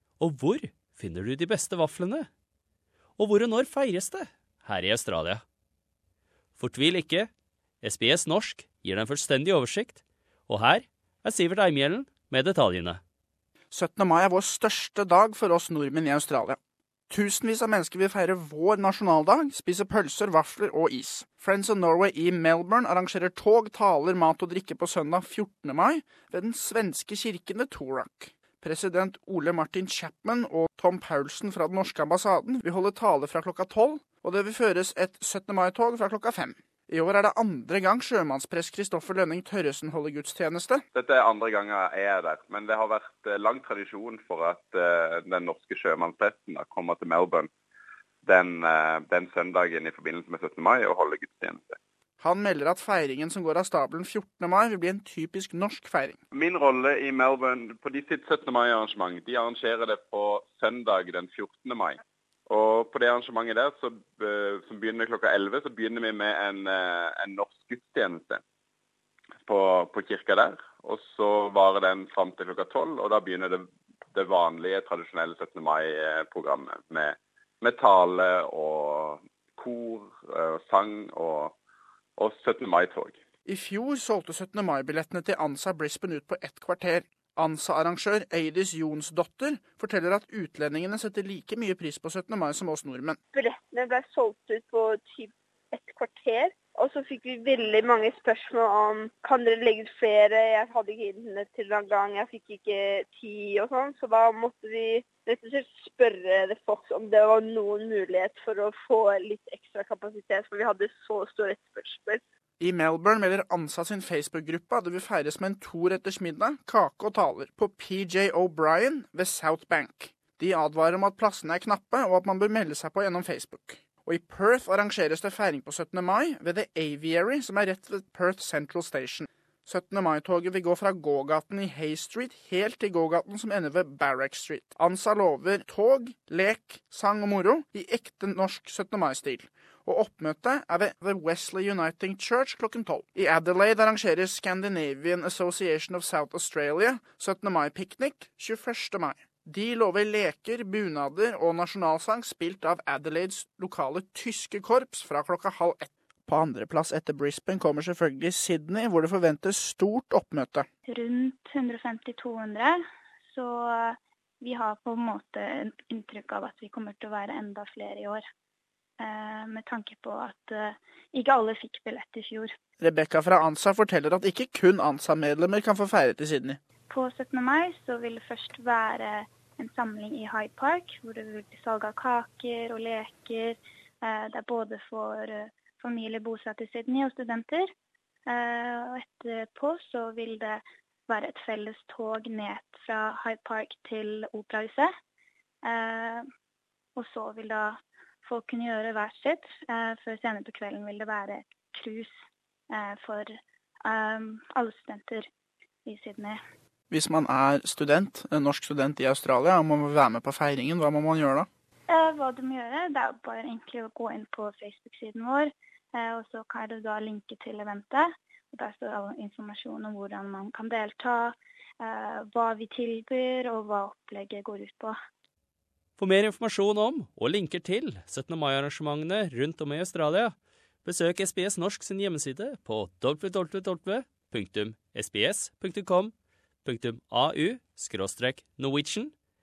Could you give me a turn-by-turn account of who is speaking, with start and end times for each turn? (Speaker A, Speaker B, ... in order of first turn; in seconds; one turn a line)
Speaker A: 0.2-2.3
Speaker A: 3.2-5.4
Speaker A: 6.6-7.3
Speaker A: 7.8-13.0
Speaker B: 13.7-16.6
Speaker B: 17.1-40.8
Speaker C: 40.9-47.5
Speaker C: 48.2-51.8
Speaker B: 52.2-56.2
Speaker C: 56.3-68.4
Speaker C: 69.4-81.5
Speaker C: 82.2-83.2
Speaker B: 83.4-93.2
Speaker D: 93.3-112.2
Speaker B: 112.6-160.7
Speaker E: 160.9-162.8
Speaker E: 163.3-168.2
Speaker E: 169.0-172.5
Speaker B: 172.8-176.6
Speaker E: 176.9-187.7
Speaker E: 188.3-194.9
Speaker E: 195.6-196.2
Speaker E: 196.9-202.1
Speaker E: 202.7-203.3
Speaker E: 203.8-205.3
Speaker E: 205.8-206.4
Speaker B: 206.9-211.5
Speaker E: 211.9-224.9
Speaker A: 226.0-236.1
Speaker A: 236.6-239.1